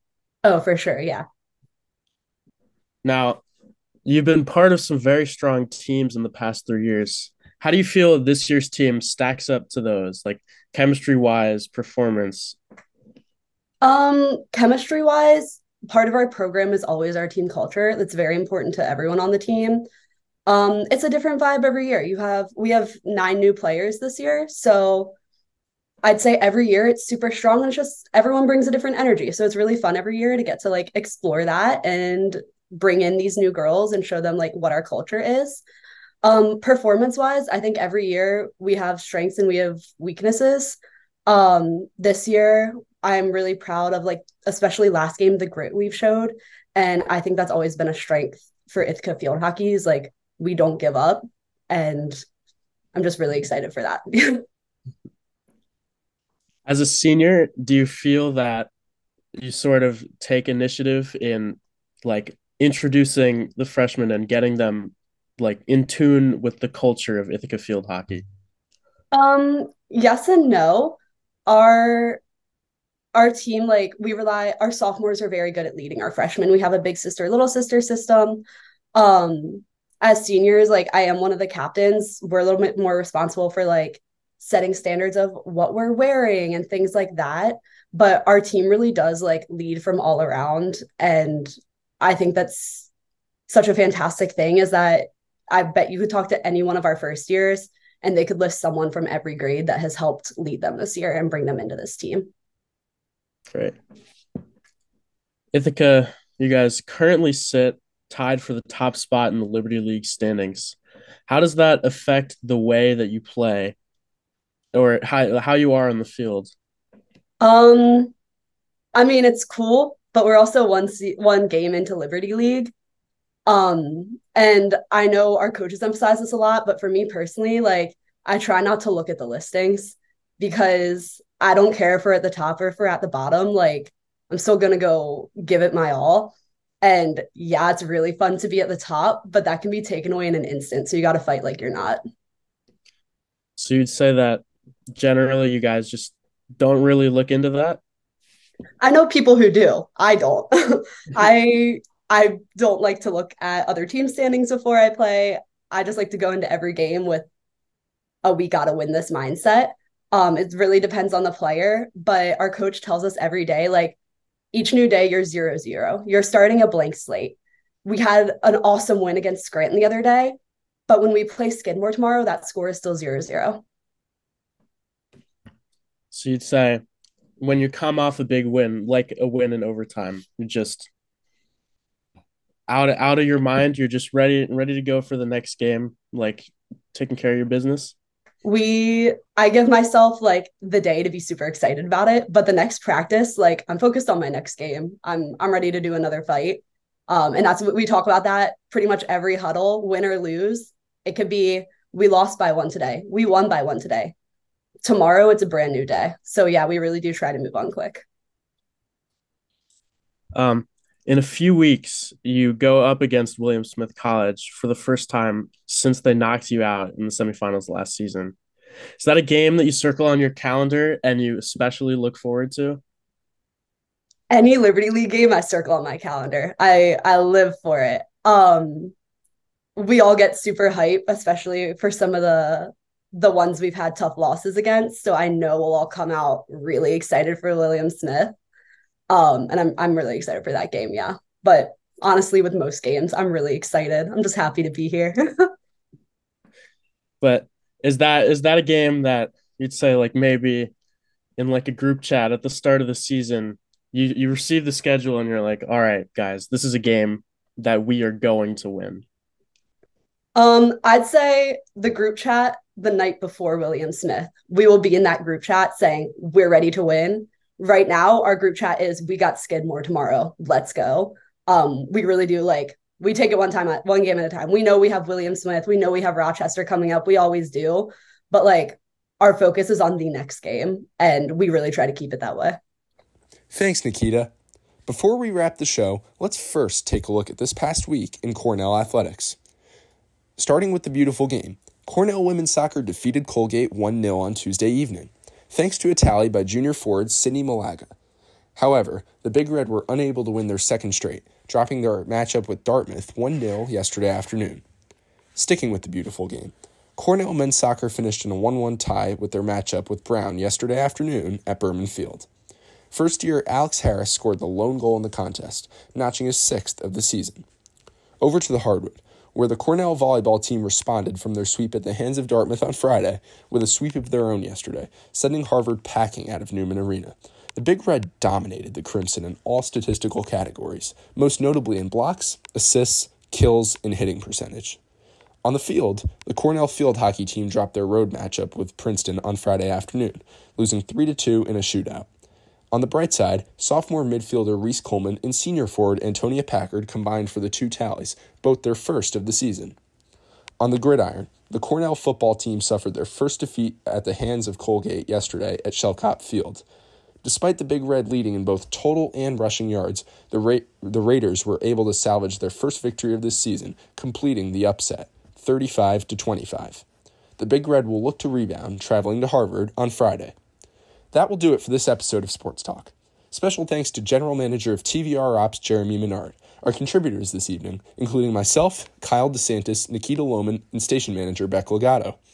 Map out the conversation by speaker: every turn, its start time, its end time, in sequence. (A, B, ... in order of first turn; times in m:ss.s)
0:00.4-0:01.2 A
0:03.0-0:03.4 B
0:04.0-0:12.6 B
0:13.8-0:19.8 A
0:20.5-0:25.1 A
0:26.0-0:35.6 A
0:36.2-0:52.2 A
0:52.9-0:54.4 A
0:56.6-0:58.7 B
0:59.3-1:08.2 B
1:09.1-1:12.2 A
1:13.1-1:18.4 A
1:18.9-1:32.9 A
1:33.5-1:42.3 A
1:43.5-1:43.8 B
1:45.5-1:50.8 B
1:51.3-1:53.7 B
1:54.7-1:56.5 B
1:57.4-1:58.1 A
1:58.9-2:02.7 A
2:03.5-2:22.0 A
2:23.6-2:27.8 B
2:28.8-2:37.2 A
2:38.2-2:44.0 A
2:44.5-2:50.4 A
2:50.9-2:53.6 A
2:56.1-2:56.8 B
2:57.4-3:00.9 B
3:02.7-3:07.9 B
3:08.4-3:24.1 A
3:24.8-3:28.0 A
3:30.3-3:38.3 B
3:39.0-3:42.8 B
3:44.3-3:48.9 A
3:49.8-3:58.3 A
3:59.1-4:05.5 A
4:07.2-4:10.7 B
4:11.4-4:19.0 B
4:20.3-4:42.6 A
4:43.5-4:44.3 C
4:44.8-4:49.4 C
4:50.4-4:57.9 C
4:58.6-5:04.6 C
5:05.3-5:12.3 C
5:12.9-5:17.4 C
5:18.2-5:34.8 C
5:35.4-5:42.1 C
5:42.7-5:49.8 C
5:50.6-5:56.6 C
5:57.2-6:06.8 C
6:07.4-6:10.3 C
6:11.1-6:22.2 C